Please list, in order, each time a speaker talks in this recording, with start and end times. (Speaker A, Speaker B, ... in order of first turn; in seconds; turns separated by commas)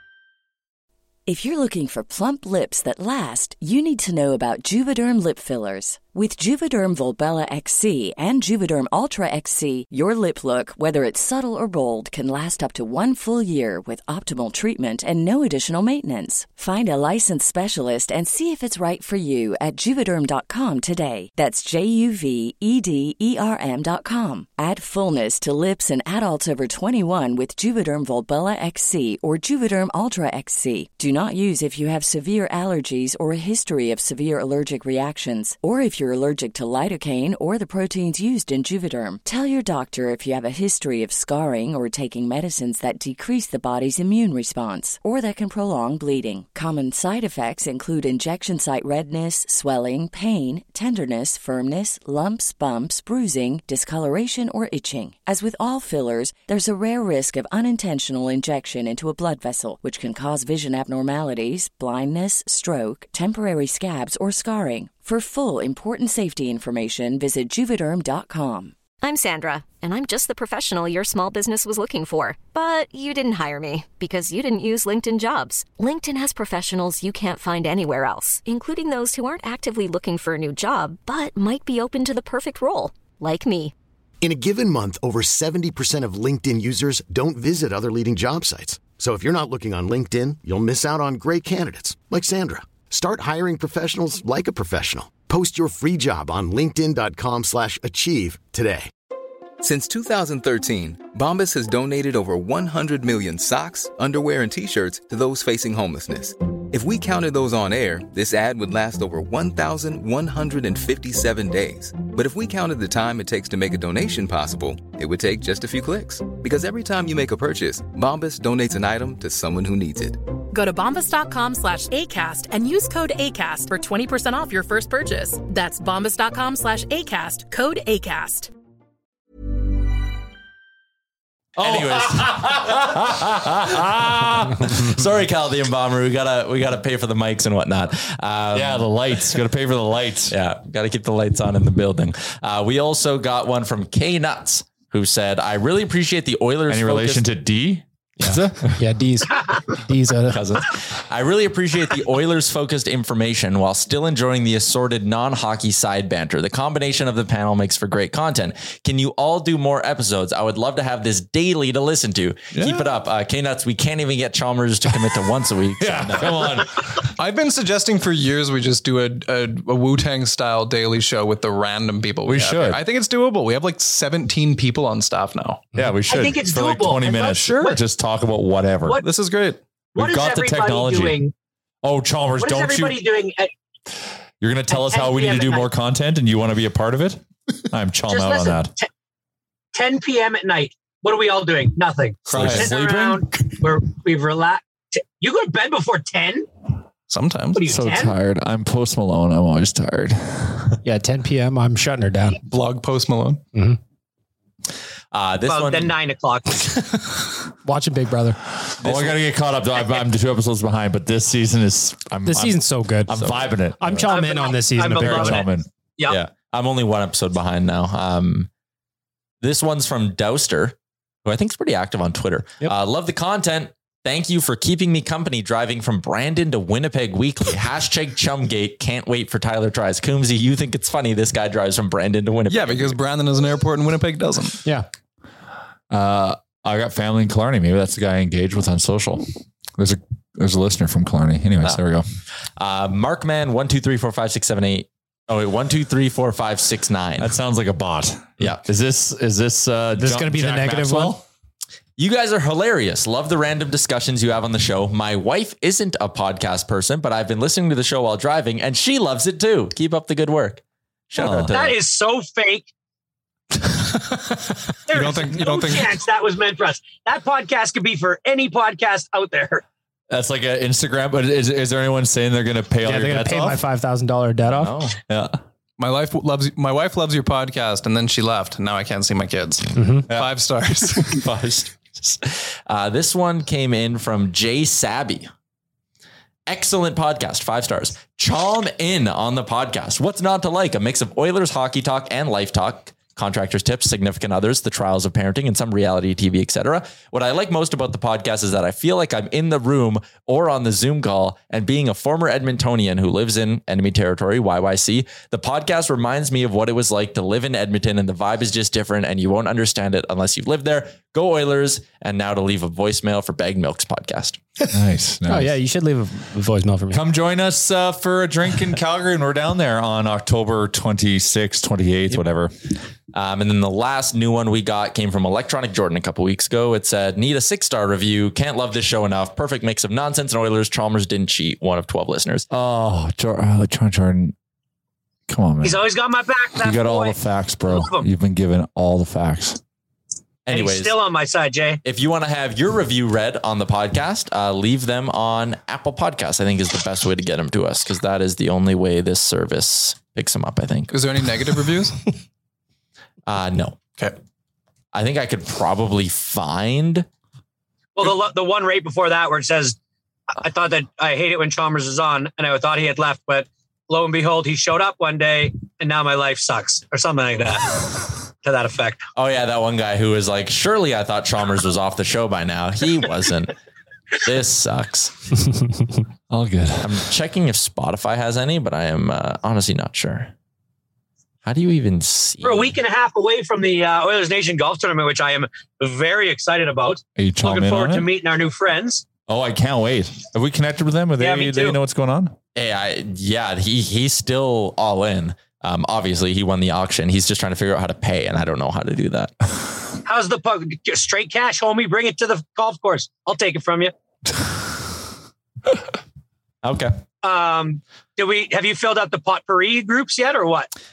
Speaker A: 1.3-68.8, Speaker B: 69.0-83.7, Speaker C: 84.2-98.9, Speaker D: 99.6-120.2, Speaker E: 120.5-128.5, Speaker F: 131.6-134.8, Speaker G: 131.6-139.2, Speaker F: 138.5-140.3, Speaker G: 140.3-147.3, Speaker F: 146.7-148.8, Speaker H: 148.2-150.7, Speaker G: 150.3-166.6, Speaker I: 162.5-162.9, Speaker F: 165.8-166.9, Speaker I: 167.0-175.7, Speaker F: 172.3-172.8, Speaker F: 175.8-179.0, Speaker J: 176.1-177.8, Speaker I: 179.0-179.6, Speaker F: 180.0-181.2, Speaker J: 180.0-181.3, Speaker F: 181.8-183.0, Speaker J: 182.4-183.5, Speaker F: 184.4-188.7, Speaker J: 184.7-185.7, Speaker J: 188.1-188.9, Speaker J: 189.7-196.5, Speaker F: 192.3-193.5, Speaker I: 192.3-192.7, Speaker I: 197.1-197.6, Speaker J: 197.6-198.1, Speaker F: 197.7-200.8, Speaker H: 200.8-202.4, Speaker I: 202.5-203.4, Speaker G: 205.1-205.9, Speaker J: 205.5-206.7, Speaker H: 207.6-208.4, Speaker F: 208.8-214.1, Speaker G: 208.8-209.2, Speaker H: 212.3-213.2, Speaker G: 213.1-213.5, Speaker H: 213.8-215.5, Speaker J: 214.1-216.2, Speaker F: 214.9-215.7, Speaker G: 216.1-218.5, Speaker G: 219.4-233.0, Speaker I: 232.5-234.6, Speaker F: 235.9-239.3, Speaker F: 239.8-242.1, Speaker G: 242.6-247.4, Speaker F: 247.2-251.2, Speaker H: 250.0-251.2, Speaker G: 252.0-261.8, Speaker F: 261.2-261.5, Speaker J: 261.5-262.7, Speaker J: 264.9-269.6, Speaker I: 264.9-266.0, Speaker F: 270.1-273.6, Speaker H: 272.8-274.8, Speaker G: 274.5-275.0, Speaker F: 275.1-275.4, Speaker I: 275.8-281.3, Speaker H: 279.8-280.0, Speaker G: 281.1-285.3, Speaker G: 286.5-314.4, Speaker F: 314.7-315.6, Speaker H: 315.3-317.0, Speaker F: 316.9-322.5, Speaker G: 323.1-332.5, Speaker F: 332.5-334.4, Speaker F: 335.3-335.8, Speaker J: 335.6-338.1, Speaker F: 336.6-339.6, Speaker G: 340.5-341.0, Speaker J: 340.5-341.8, Speaker G: 341.8-350.9, Speaker I: 350.9-352.0, Speaker G: 353.3-353.8, Speaker G: 354.9-357.1, Speaker J: 358.0-359.8, Speaker J: 360.4-369.0, Speaker G: 369.2-373.5, Speaker G: 374.2-375.1, Speaker F: 376.3-377.1, Speaker G: 376.8-380.3, Speaker G: 381.4-382.8, Speaker J: 382.4-389.1, Speaker F: 387.2-388.1, Speaker F: 389.3-392.4, Speaker J: 391.2-391.8, Speaker G: 392.6-399.3, Speaker J: 400.1-403.9, Speaker G: 406.6-406.9, Speaker J: 407.2-410.7